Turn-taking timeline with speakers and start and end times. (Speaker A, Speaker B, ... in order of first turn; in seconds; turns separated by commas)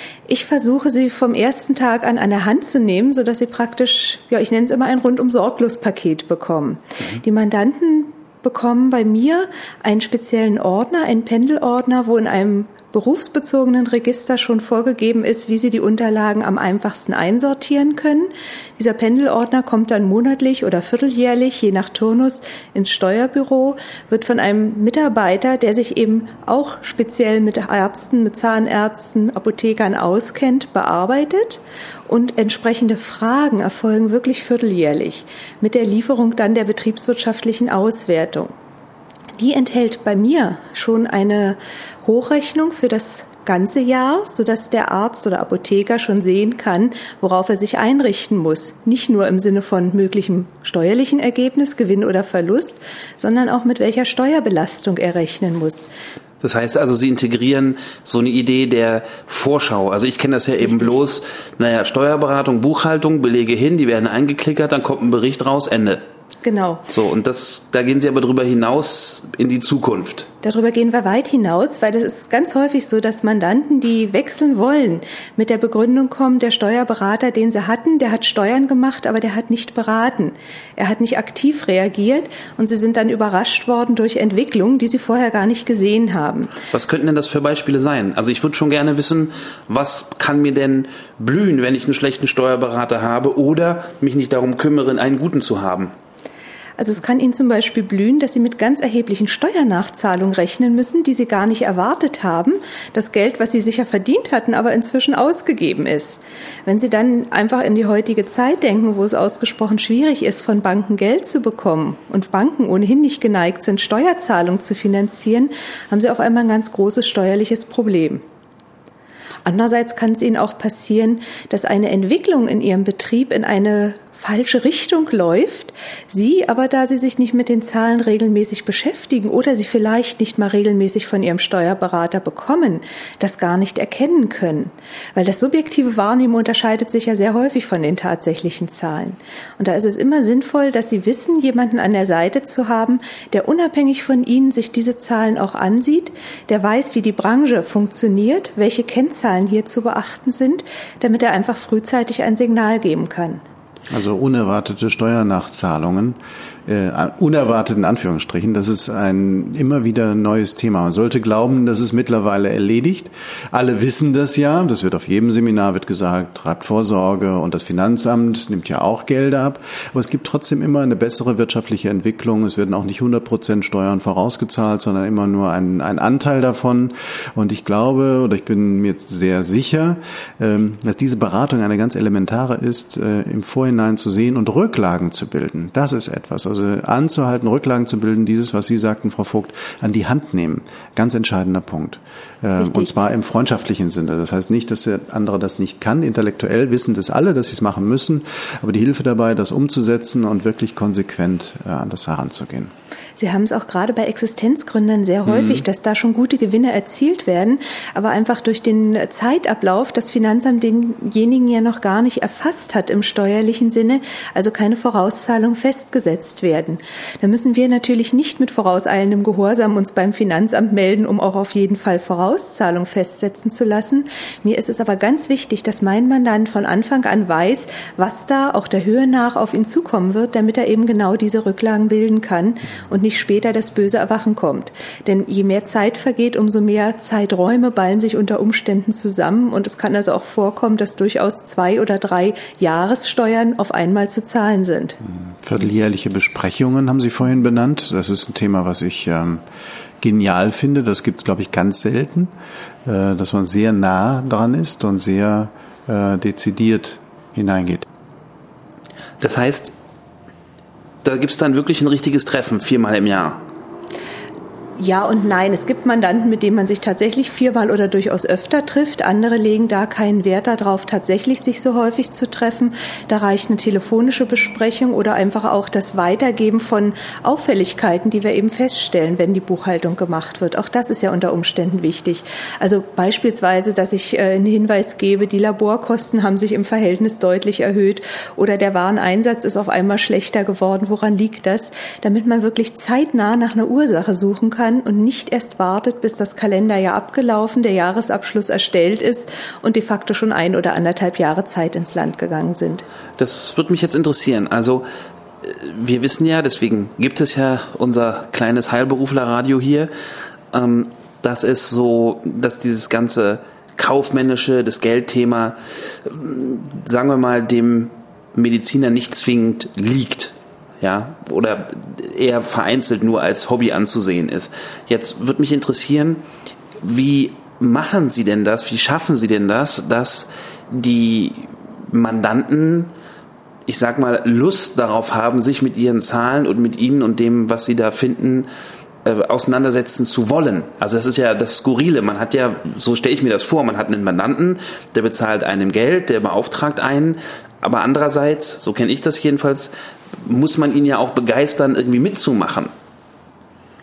Speaker A: 0.3-38.5, Speaker A: 39.4-55.9, Speaker B: 56.4-66.0, Speaker A: 60.6-61.0, Speaker A: 66.4-66.8, Speaker B: 66.9-70.3, Speaker A: 70.4-86.5, Speaker B: 86.7-95.9, Speaker A: 96.8-118.2, Speaker A: 119.5-153.4, Speaker C: 153.9-202.7, Speaker A: 203.2-245.0, Speaker C: 205.3-205.6, Speaker C: 245.0-249.4, Speaker C: 250.0-252.3, Speaker C: 252.8-257.9, Speaker B: 259.2-259.7, Speaker B: 261.0-263.4, Speaker A: 264.8-302.9, Speaker B: 303.2-304.9, Speaker B: 305.4-309.9, Speaker B: 310.5-326.2, Speaker B: 326.8-332.9, Speaker B: 333.7-338.5, Speaker B: 339.0-352.7